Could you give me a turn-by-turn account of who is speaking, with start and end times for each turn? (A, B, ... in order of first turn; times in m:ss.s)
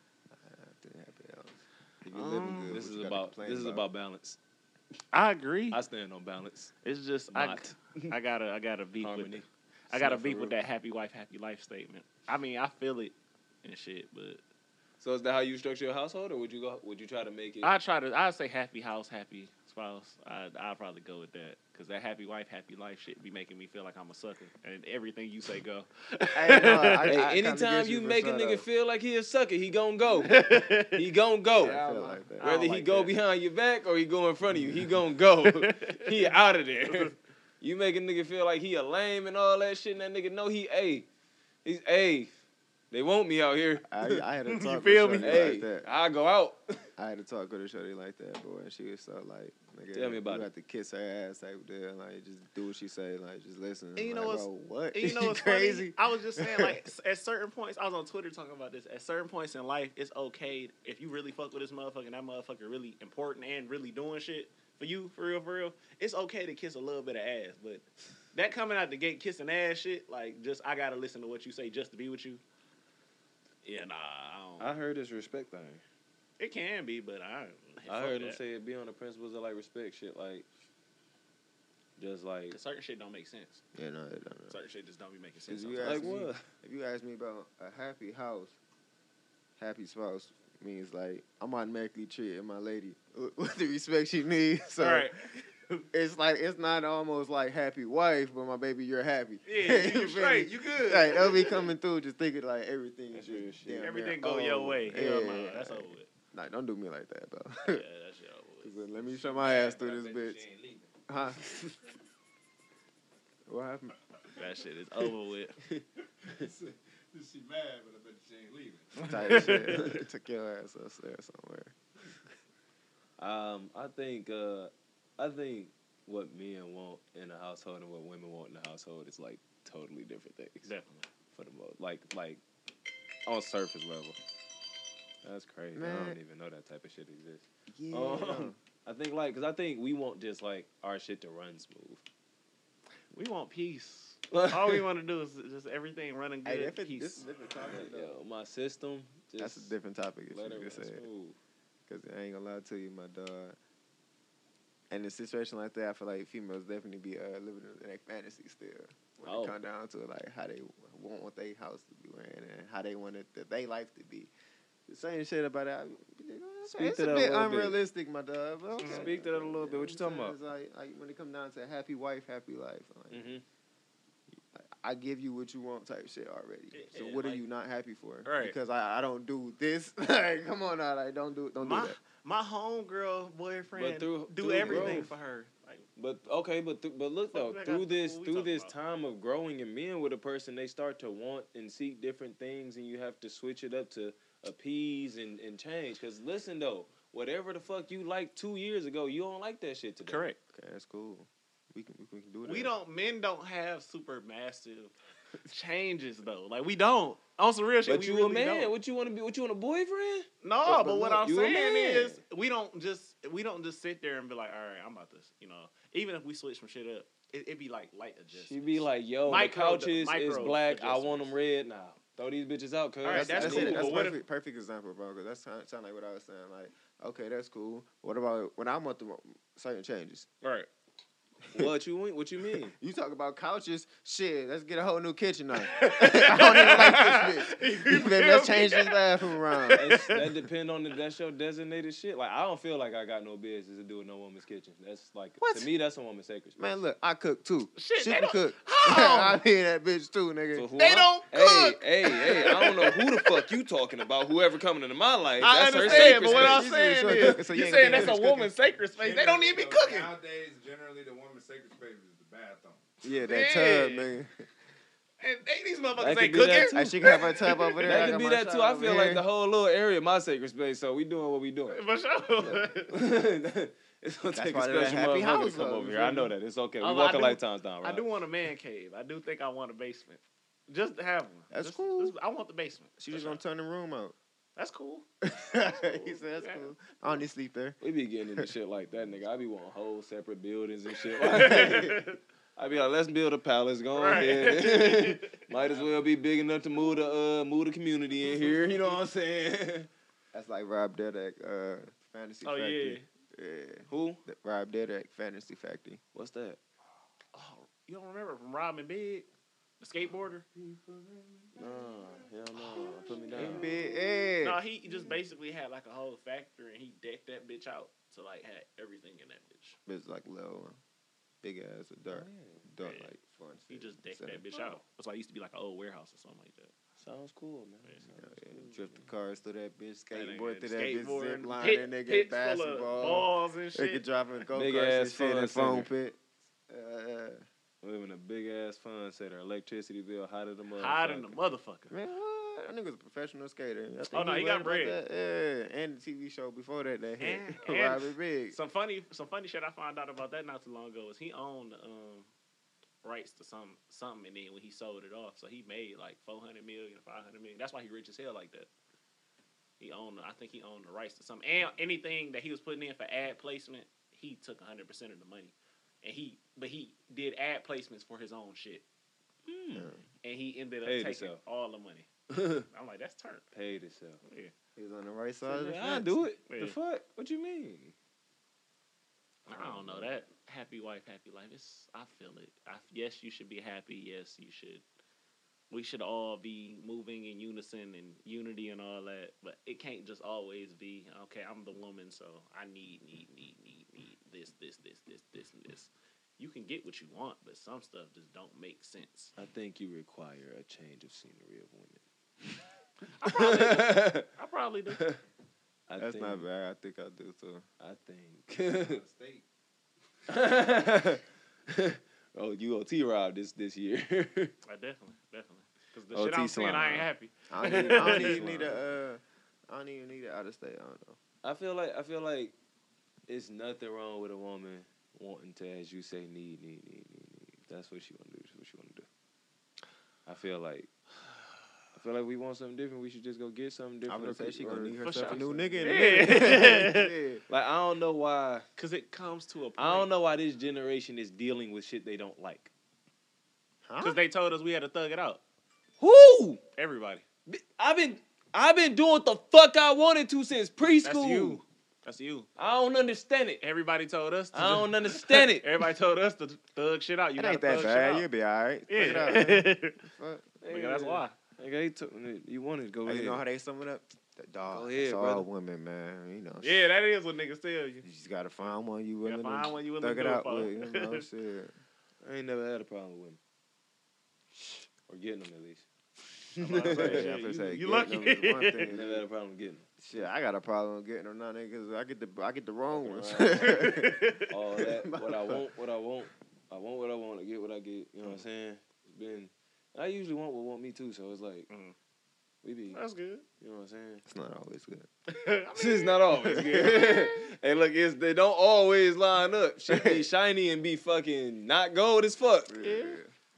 0:00.3-0:03.9 A
0:02.1-0:02.8 B
0:02.7-0:04.4 C
0:05.1-0:05.8 B
0:05.7-0:06.7 C
0:06.8-0:14.4 B
0:07.3-0:08.1 C
0:09.0-0:10.6 C
0:15.0-0:17.7 C
0:17.6-0:27.2 B
0:26.3-0:28.6 A
0:27.1-0:41.1 C
0:30.2-0:31.0 B
0:31.5-0:32.5 A
0:32.4-0:33.1 B
0:35.4-0:36.2 B
0:36.8-0:37.1 B
0:41.6-0:42.3 C
0:42.9-0:44.2 C
0:43.8-0:45.9 A
0:44.5-0:45.5 B
0:45.1-0:46.9 C
0:47.0-0:56.9 A
0:49.9-0:50.5 C
0:54.0-1:12.4 B
1:13.6-1:14.7 B
1:14.6-1:15.8 C
1:16.4-1:18.4 B
1:17.9-1:20.5 C
1:22.0-1:22.6 C
1:22.5-1:23.6 B
1:23.7-1:24.5 A
1:24.5-1:26.1 B
1:25.5-1:28.6 A
1:25.8-1:26.4 C
1:29.6-1:35.1 A
1:34.8-1:35.8 B
1:35.9-1:47.8 A
1:39.4-1:41.7 B
1:43.1-1:43.9 C
1:43.8-1:46.1 B
1:47.6-1:48.8 B
1:48.6-1:50.4 A
1:49.1-1:50.9 C
1:51.1-1:51.7 A
1:53.5-1:53.9 A
1:54.4-1:55.6 B
1:56.2-1:59.6 D
1:59.0-2:01.7 A
1:59.2-2:00.0 B
1:59.4-1:59.7 C
2:03.2-2:10.7 C
2:10.6-2:11.1 B
2:11.3-2:12.4 C
2:13.2-2:14.2 C
2:15.2-2:22.0 C
2:15.7-2:16.2 A
2:17.7-2:18.6 A
2:23.1-2:27.2 B
2:24.3-2:24.8 C
2:26.4-2:28.2 A
2:27.6-2:29.7 C
2:29.4-2:31.0 A
2:30.3-2:31.4 C
2:31.9-2:33.6 A
2:34.9-2:44.3 A
2:39.2-2:39.5 B
2:39.3-2:39.5 C
2:44.9-2:53.3 A
2:46.6-2:47.8 C
2:48.8-2:49.1 B
2:48.8-2:50.4 C
2:53.1-2:53.4 C
2:54.5-3:02.0 A
2:56.7-2:57.4 B
2:58.2-2:58.6 B
3:01.6-3:05.8 B
3:03.7-3:05.1 C
3:04.6-3:05.1 A
3:06.0-3:20.3 C
3:07.3-3:08.7 B
3:20.1-3:20.4 B
3:20.5-3:22.7 A
3:22.4-3:28.7 B
3:27.8-3:32.2 C
3:30.4-3:41.3 B
3:38.3-3:44.0 C
3:43.0-3:44.2 B
3:43.1-3:50.3 A
3:50.4-3:50.7 B
3:51.5-3:52.7 C
3:52.8-3:59.9 A
3:55.6-4:00.2 B
3:59.7-4:06.6 C
4:05.4-4:05.7 A
4:06.6-4:10.7 A
4:07.8-4:09.4 B
4:10.5-4:18.1 C
4:10.8-4:13.6 B
4:15.4-4:20.1 B
4:15.8-4:18.5 A
4:19.0-4:22.8 D
4:23.0-4:24.4 A
4:23.2-4:24.1 B
4:25.2-4:28.3 B
4:26.0-4:27.0 C
4:26.7-4:29.2 A
4:27.8-4:31.8 C
4:31.7-4:32.9 B
4:32.9-4:38.0 C
4:34.3-4:36.3 A
4:36.8-4:43.4 B
4:41.5-4:42.1 A
4:43.0-4:44.2 A
4:44.6-4:45.0 B
4:45.2-4:47.8 A
4:45.7-4:47.0 B
4:47.8-4:52.0 C
4:51.1-4:52.2 B
4:51.4-4:52.0 A
4:52.6-4:59.9 C
4:53.9-4:55.9 B
4:58.4-4:58.8 B
5:00.3-5:06.0 A
5:02.4-5:03.0 B
5:03.9-5:04.2 C
5:06.1-5:06.6 C
5:07.3-5:09.3 B
5:09.8-5:10.4 B
5:10.6-5:10.8 C
5:11.4-5:13.8 C
5:13.3-5:14.6 A
5:14.4-5:19.8 B
5:19.8-5:20.8 A
5:21.4-5:24.4 A
5:22.1-5:22.6 C
5:22.8-5:23.1 B
5:23.7-5:26.7 B
5:27.0-5:29.0 C
5:28.2-5:37.4 A
5:30.1-5:34.0 B
5:34.5-5:35.9 C
5:37.8-5:41.4 C
5:40.7-5:41.9 B
5:41.9-5:48.6 A
5:44.1-5:45.0 B
5:47.2-5:52.3 B
5:53.0-5:58.7 B
5:59.8-6:08.8 B
6:09.4-6:09.9 C
6:09.7-6:10.0 A
6:10.2-6:12.1 B
6:10.8-6:11.4 C
6:12.3-6:12.6 C
6:12.7-6:13.4 B
6:13.5-6:14.2 C
6:14.2-6:14.5 B
6:14.8-6:16.3 A
6:15.4-6:17.9 C
6:16.5-6:16.8 B
6:19.5-6:20.1 C
6:19.5-6:24.8 B
6:25.7-6:39.3 B
6:39.4-6:42.0 C
6:43.2-6:45.1 B
6:43.3-6:44.3 C
6:44.9-6:45.2 C
6:45.9-6:46.4 C
6:46.0-6:47.6 A
6:47.8-6:49.0 C
6:48.8-6:49.4 D
6:50.3-6:54.5 C
6:54.6-6:58.7 B
6:56.1-6:57.0 C
6:57.5-7:01.2 A
6:57.6-6:58.8 C
7:01.4-7:02.5 C
7:03.3-7:09.1 C
7:10.2-7:10.9 C
7:11.9-7:16.7 C
7:14.1-7:17.4 A
7:15.0-7:17.1 B
7:17.5-7:18.7 C
7:18.8-7:20.1 B
7:19.8-7:22.7 C
7:23.8-7:24.2 A
7:24.0-7:25.4 B
7:26.0-7:26.6 C
7:26.8-7:27.2 B
7:27.5-7:31.6 C
7:31.0-7:32.5 B
7:32.6-7:33.6 C
7:33.6-7:38.3 B
7:34.5-7:35.7 C
7:37.4-7:40.5 A
7:38.9-7:40.0 B
7:40.6-7:43.4 C
7:40.7-7:41.3 B
7:43.0-7:46.9 A
7:44.7-7:45.5 C
7:46.6-7:48.0 B
7:48.0-7:51.7 A
7:49.2-7:51.2 B
7:52.2-7:53.4 C
7:55.1-7:55.9 C
7:56.6-7:59.2 A
7:56.6-7:57.3 C
7:56.6-7:58.9 B
7:58.9-7:59.9 C
8:00.0-8:05.7 A
8:02.9-8:04.0 C
8:03.6-8:04.5 B
8:04.5-8:11.7 C
8:11.7-8:11.9 B
8:12.6-8:13.0 C
8:12.9-8:13.4 B
8:13.6-8:14.2 C
8:14.3-8:15.1 A
8:15.3-8:17.3 B
8:15.8-8:22.8 C
8:16.5-8:16.9 A
8:19.9-8:20.2 A
8:22.7-8:23.3 A
8:22.8-8:23.2 B